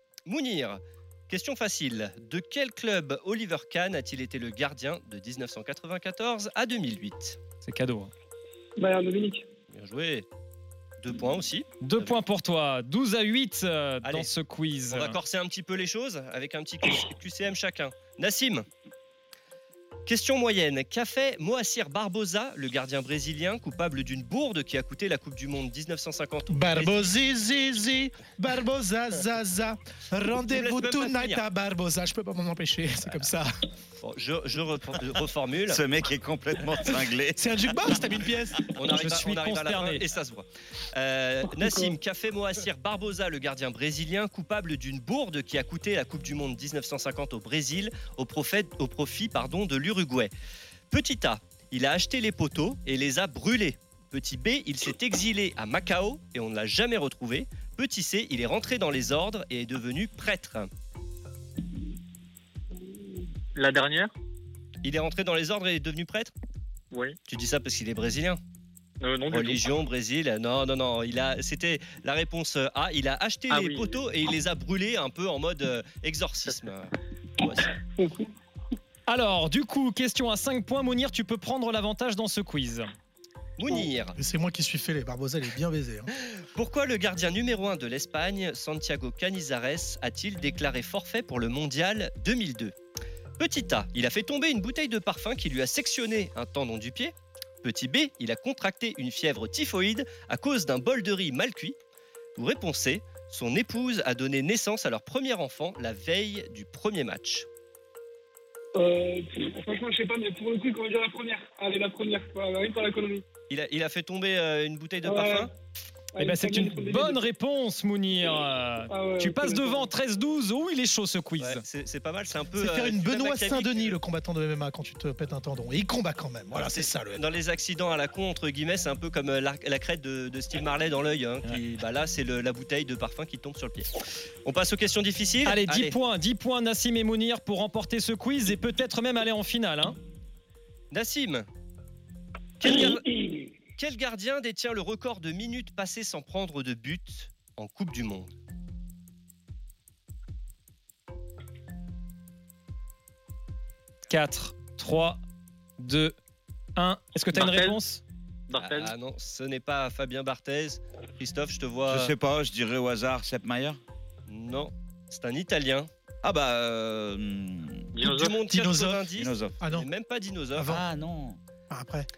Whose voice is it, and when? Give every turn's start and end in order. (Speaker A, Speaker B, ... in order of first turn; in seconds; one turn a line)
Speaker A: 0.3-7.4
Speaker B: 7.6-8.1
Speaker C: 8.8-9.5
Speaker A: 9.7-10.2
Speaker A: 11.0-12.2
Speaker B: 11.8-15.2
Speaker A: 14.0-14.3
Speaker A: 14.9-18.6
Speaker A: 20.1-27.1
Speaker D: 26.5-33.5
Speaker A: 30.5-31.4
Speaker A: 34.0-35.8
Speaker E: 35.6-38.0
Speaker D: 36.8-38.6
Speaker A: 38.7-50.3
Speaker B: 38.9-40.0
Speaker C: 41.6-41.9
Speaker A: 50.9-60.7
Speaker C: 62.8-63.3
Speaker F: 63.5-64.1
Speaker A: 64.8-66.3
Speaker F: 66.9-67.2
Speaker A: 67.3-68.4
Speaker F: 69.0-69.8
Speaker A: 69.3-77.7
Speaker F: 73.5-73.9
Speaker C: 78.0-78.3
Speaker B: 79.1-82.9
Speaker A: 83.6-84.2
Speaker D: 84.2-86.1
Speaker A: 86.2-92.7
Speaker A: 93.4-101.8
Speaker A: 102.4-107.5
Speaker C: 108.7-113.3
Speaker A: 113.5-115.5
Speaker C: 115.0-115.5
Speaker C: 116.1-117.2
Speaker B: 116.2-121.6
Speaker C: 118.9-119.9
Speaker A: 121.4-124.0
Speaker D: 122.5-127.3
Speaker A: 126.5-133.9
Speaker A: 134.4-135.9
Speaker B: 135.4-139.9
Speaker A: 140.9-141.4
Speaker A: 142.6-143.1
Speaker A: 143.8-148.3
Speaker B: 154.1-155.2
Speaker B: 155.8-156.1
Speaker B: 156.8-158.0
Speaker F: 157.3-157.8
Speaker F: 158.5-158.9
Speaker A: 158.6-162.1
Speaker E: 161.8-163.8
Speaker A: 164.3-165.9
Speaker E: 166.2-167.9
Speaker F: 167.9-168.4
Speaker A: 168.0-170.7
Speaker D: 168.4-169.9
Speaker E: 169.1-169.6
Speaker D: 170.5-170.9
Speaker E: 170.7-171.4
Speaker D: 171.7-172.1